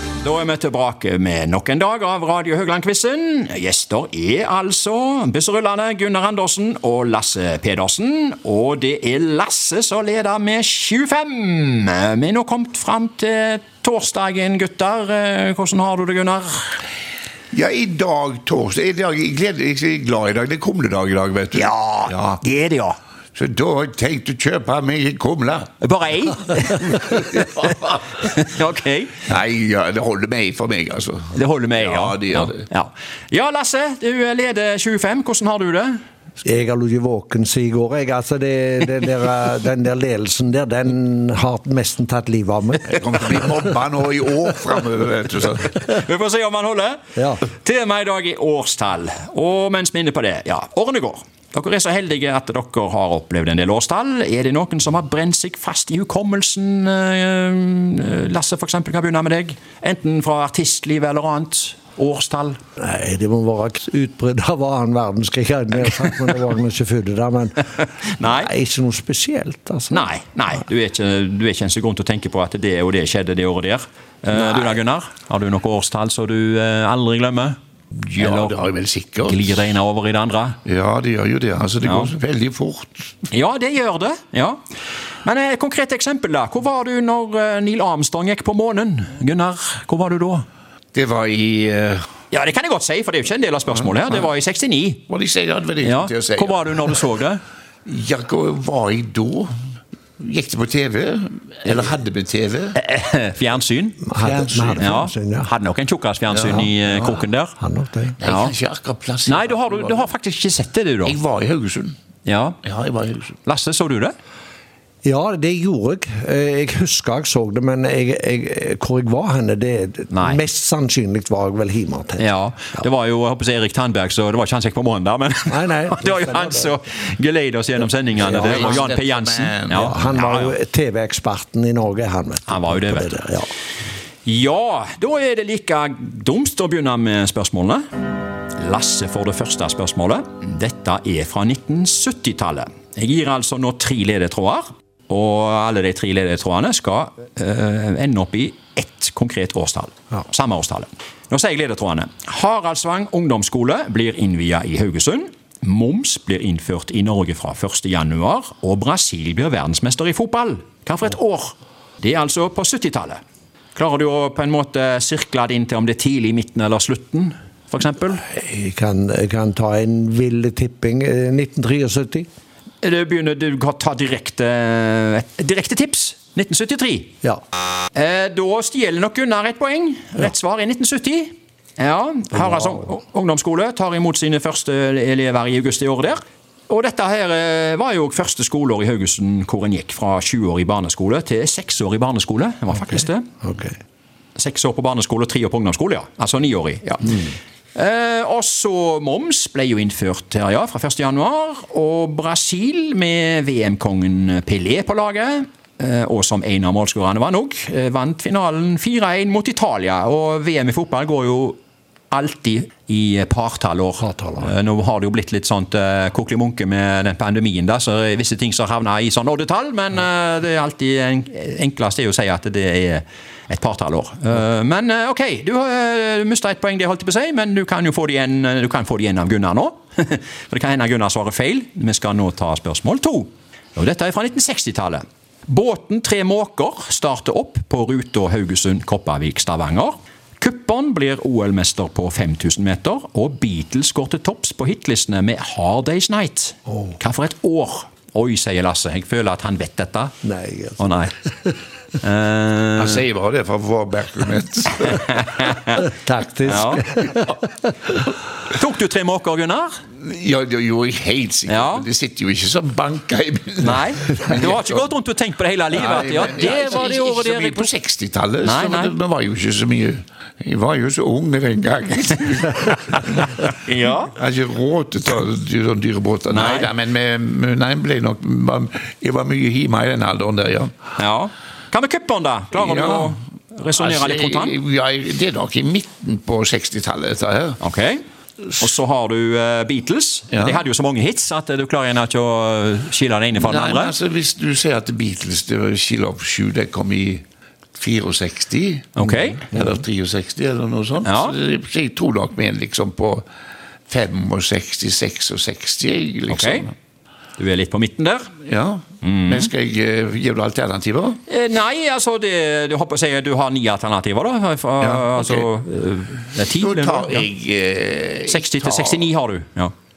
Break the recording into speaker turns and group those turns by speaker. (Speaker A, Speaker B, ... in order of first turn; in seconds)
Speaker A: 0.2-16.8, 21.5-23.0, 25.8-29.2, 31.3-36.0, 45.7-62.6, 67.8-68.5, 69.9-77.6, 78.2-78.7, 79.2-80.6, 81.8-82.1, 83.3-84.6, 85.2-90.5, 92.3-95.0, 95.8-97.4, 102.8-104.1, 104.8-107.6, 108.2-108.5, 109.3-111.2, 112.2-112.6, 113.4-114.1, 120.1-120.4, 122.2-130.6, 132.5-133.2, 134.2-137.8, 138.6-163.2, 163.8-168.2, 172.8-177.2, 177.9-193.3, 194.4-211.6, 212.1-250.2, 250.8-251.1, 252.0-253.0, 254.9-255.8, 256.5-256.8, 258.5-259.8, 261.5-261.9, 263.6-267.7, 268.4-268.9, 273.3-274.2, 276.3-276.7, 281.0-284.6, 287.6-288.0, 288.5-293.9, 299.0-299.5, 301.0-301.4, 306.3-306.7, 307.4-308.3, 309.0-309.5, 311.3-317.3, 318.3-319.7
Speaker B: 17.5-22.4, 23.4-25.7, 27.2-27.8, 29.3-32.6, 42.9-45.7, 77.9-79.7, 80.7-83.2, 90.9-92.1, 95.1-97.0, 97.8-99.5, 100.2-102.8, 104.2-105.0, 106.3-106.7, 108.2-110.1, 111.1-112.0, 112.6-113.4, 128.2-130.0, 252.8-255.2, 260.0-264.9, 265.7-273.4, 274.1-280.7, 282.6-283.2, 283.8-287.6, 290.3-290.6, 293.4-297.2, 297.8-303.2, 303.9-306.7, 308.5-311.2, 314.8-315.5, 316.4-319.1
Speaker C: 36.4-43.0, 47.2-47.4, 62.8-67.7, 68.2-70.1, 104.0-105.5, 107.6-108.2, 115.0-122.3, 125.5-126.7, 128.2-128.7, 129.7-133.5, 168.2-172.3, 182.3-182.7, 193.4-193.7, 214.0-214.5, 250.2-251.1, 255.8-257.5